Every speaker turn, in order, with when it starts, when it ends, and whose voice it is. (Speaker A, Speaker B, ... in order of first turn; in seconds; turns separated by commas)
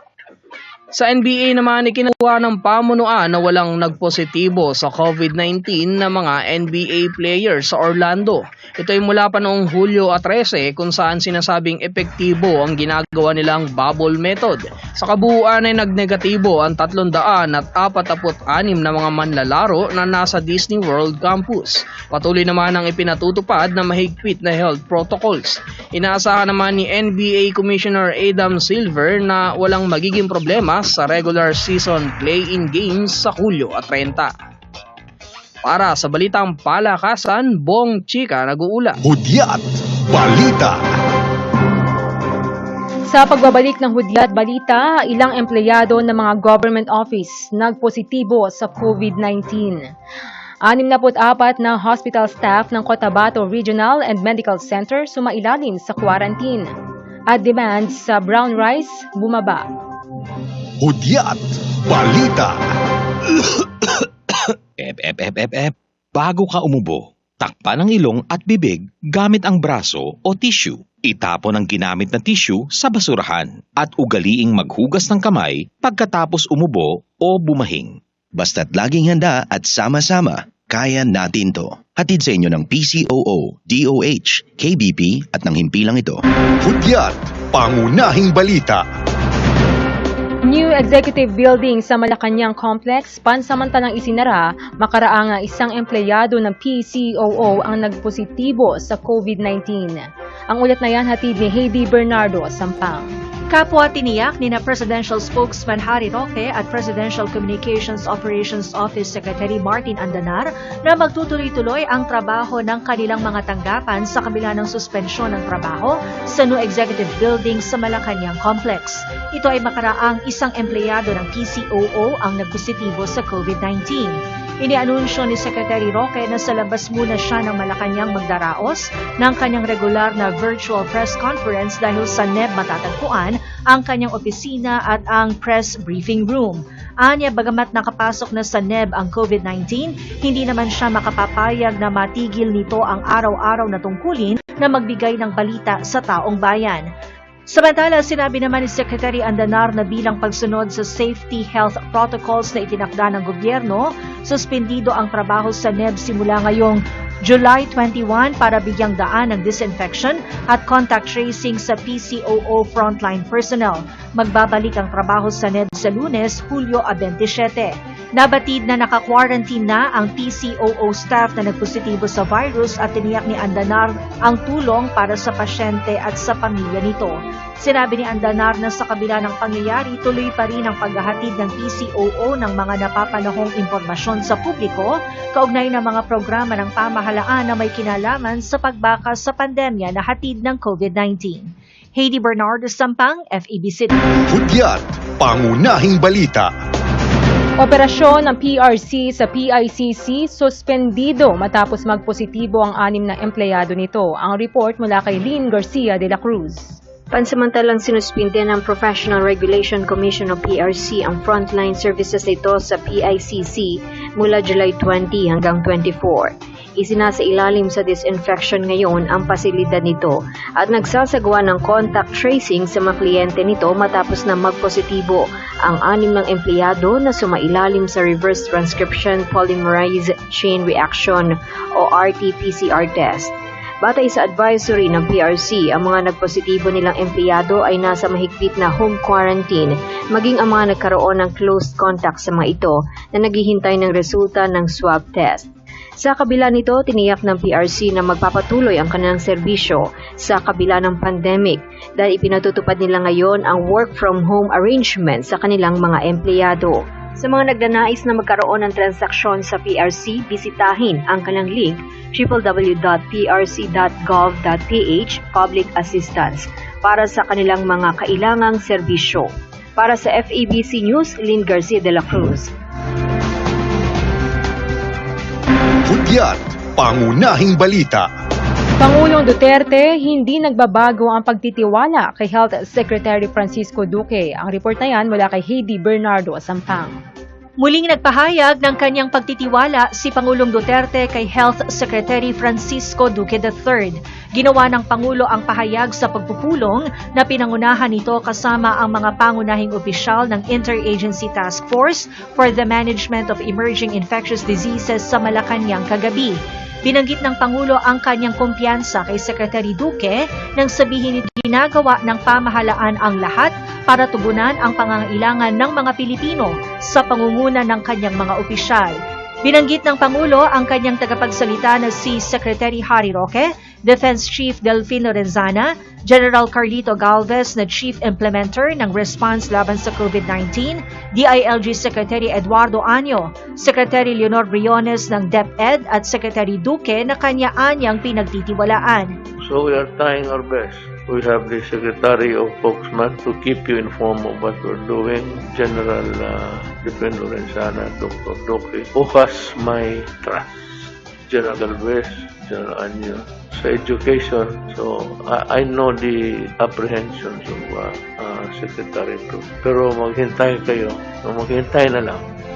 Speaker A: 1.0-34.3, Speaker A: 35.7-39.0, Speaker B: 39.1-40.8, Speaker C: 43.1-49.8, Speaker C: 50.7-56.7, Speaker C: 57.3-59.6, Speaker B: 60.8-62.5, Speaker B: 63.6-63.9, Speaker D: 64.8-78.0, Speaker E: 78.3-86.2, Speaker B: 86.6-88.8, Speaker C: 90.5-103.1, Speaker F: 103.5-146.9, Speaker F: 147.5-193.9, Speaker B: 194.3-196.5, Speaker C: 197.6-206.7, Speaker G: 207.1-245.5, Speaker G: 246.0-272.5, Speaker B: 275.9-278.1, Speaker C: 278.8-287.0, Speaker F: 287.6-339.1, Speaker H: 339.4-362.2